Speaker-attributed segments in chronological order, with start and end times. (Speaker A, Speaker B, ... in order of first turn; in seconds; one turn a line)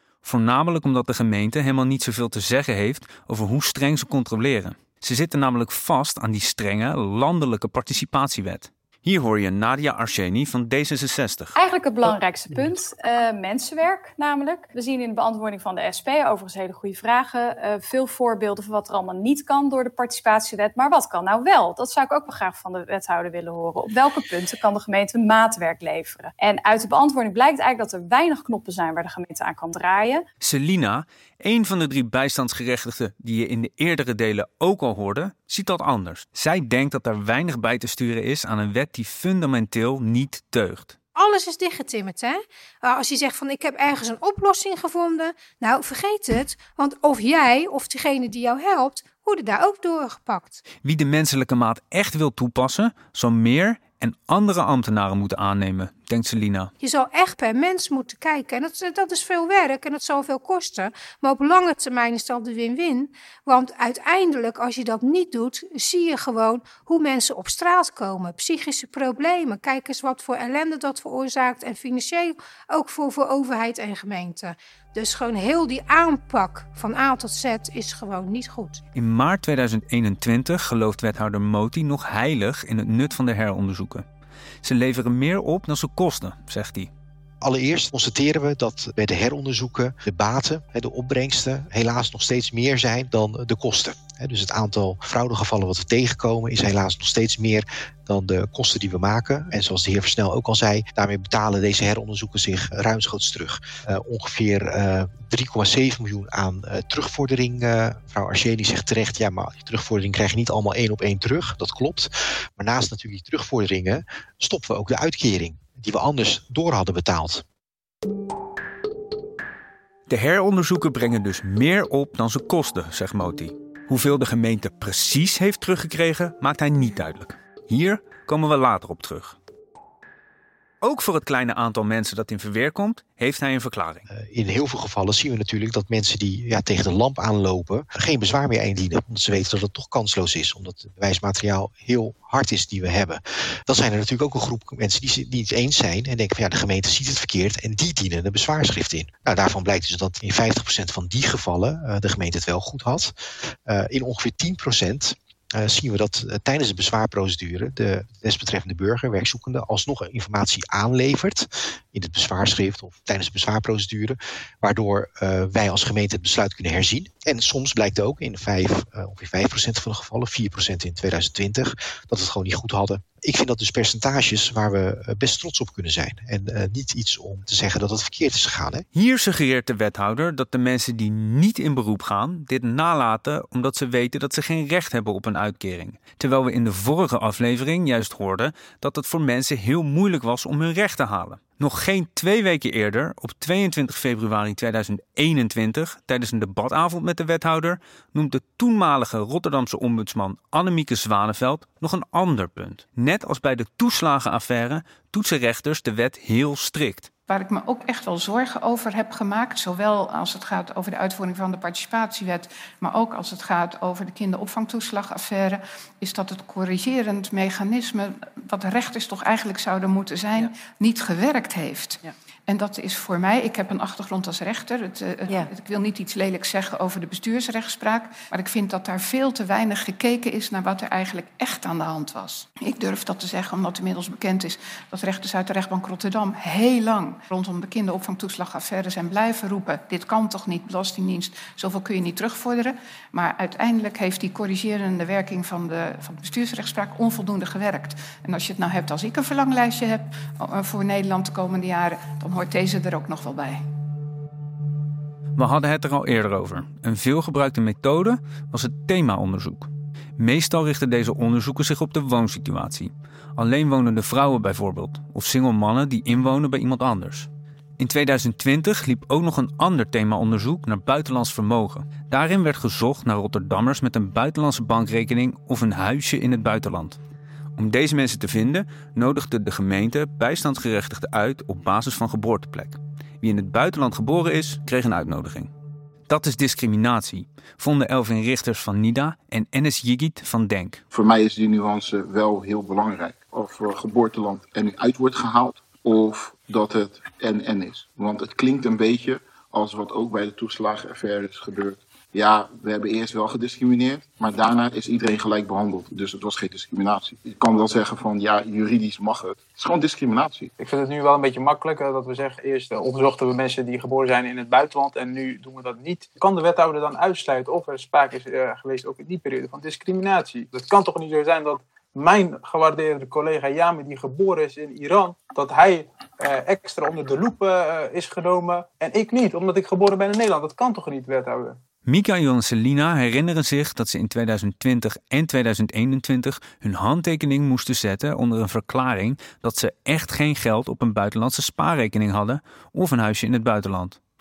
Speaker A: 0.2-11.5
Speaker B: 11.6-30.2
Speaker A: 30.4-41.0
Speaker C: 41.1-50.6
Speaker A: 50.8-56.7
Speaker C: 56.8-78.8
Speaker A: 78.9-84.0
Speaker A: 84.6-86.9
Speaker D: 87.4-117.4
Speaker A: 120.1-129.4
Speaker A: 130.8-134.1
Speaker D: 134.1-153.1
Speaker D: 153.7-178.8
Speaker A: 178.9-207.1
Speaker E: 207.3-253.6
Speaker A: 255.3-277.0
Speaker A: 277.6-285.5
Speaker A: 286.1-290.8
Speaker F: 290.9-310.5
Speaker G: 310.6-331.6
Speaker A: 331.9-344.0